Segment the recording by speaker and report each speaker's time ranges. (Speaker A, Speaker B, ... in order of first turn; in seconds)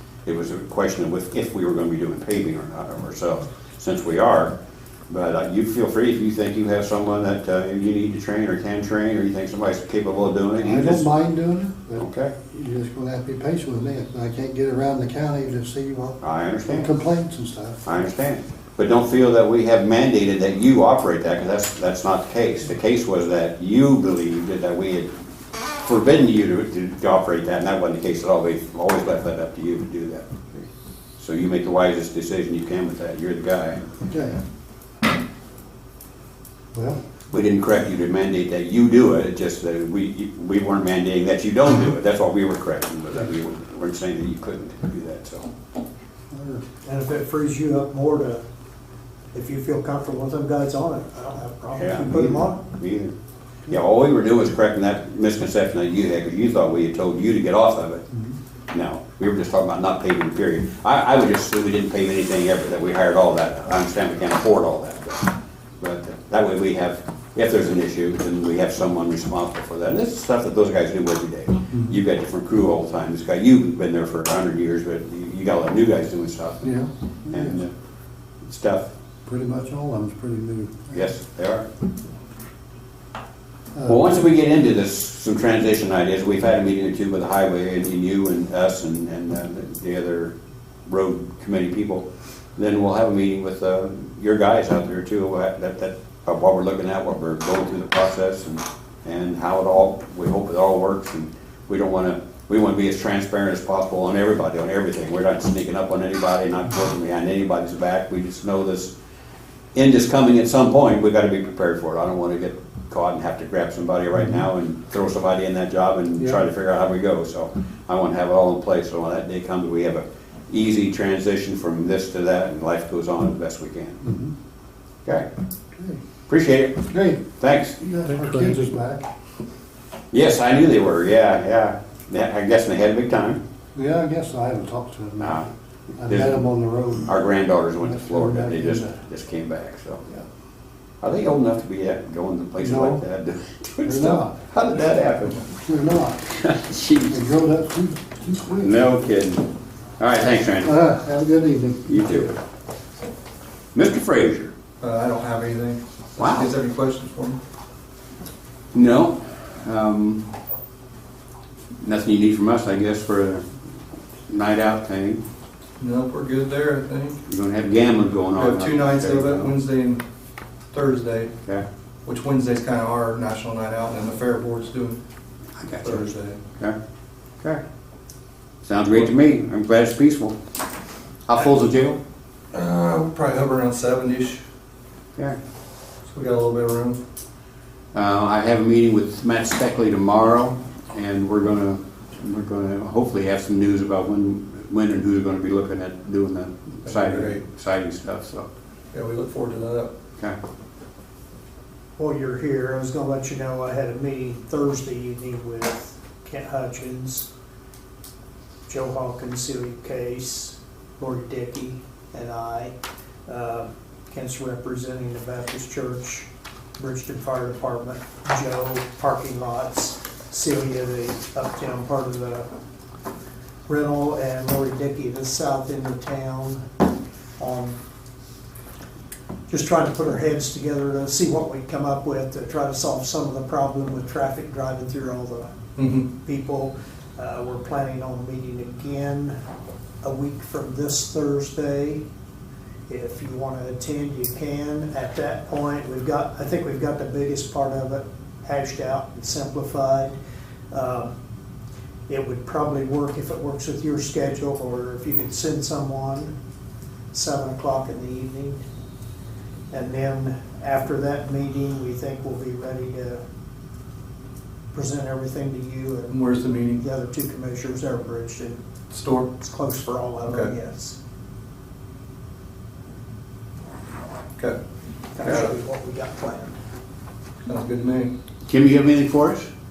Speaker A: 0.2-4.5, 5.1-11.1, 12.0-12.3, 16.2-16.9, 17.9-25.1, 25.8-30.7, 31.2-33.8, 37.3-45.5, 51.8-53.1, 53.7-58.1, 58.7-76.7, 77.3-77.7, 78.4-78.9, 80.9-81.7, 83.9-90.3, 90.9-92.0, 92.6-108.9, 109.8-124.0, 126.3-128.5, 130.1-133.4, 135.2-136.4, 137.1-140.0, 141.0-145.5, 146.3-147.3, 148.6-150.8, 151.9-152.3, 153.8-154.5, 156.2-156.5, 158.7-160.3, 161.8-163.4, 164.3-165.2, 167.3-169.5, 175.6-176.0, 178.6-180.4, 181.3-182.0, 187.9-198.5, 278.5-279.5
Speaker B: 10.6-17.8, 34.1-34.4, 46.3-46.6, 76.6-77.6, 79.3-81.0, 83.8-84.1, 124.0-124.3, 126.9-127.2, 127.8-129.1, 133.8-135.4, 136.0-137.1, 137.8-138.9, 142.6-143.0, 143.8-144.4, 145.6-146.2, 147.1-148.8, 150.6-152.3
Speaker C: 46.9-48.4, 49.3-52.6, 202.0-207.3, 208.7-212.7, 213.3-216.3, 216.8-222.5, 223.7-226.6, 227.4-227.8, 229.5-235.5, 236.1-239.3, 240.0-242.0, 242.9-250.2, 250.7-251.1, 252.1-256.3, 257.1-258.6, 259.7-263.2, 264.7-266.2, 266.8-268.6, 269.4-271.0, 275.2-276.6
Speaker D: 154.8-157.4, 165.8-167.2, 168.3-170.0, 170.7-171.3, 172.1-175.0, 175.8-176.4, 182.5-184.4, 186.1-187.0, 196.9-197.4, 198.9-199.9, 235.8-236.1, 266.1-266.8, 268.9-269.3, 270.2-270.5, 275.2-275.5, 277.4-278.1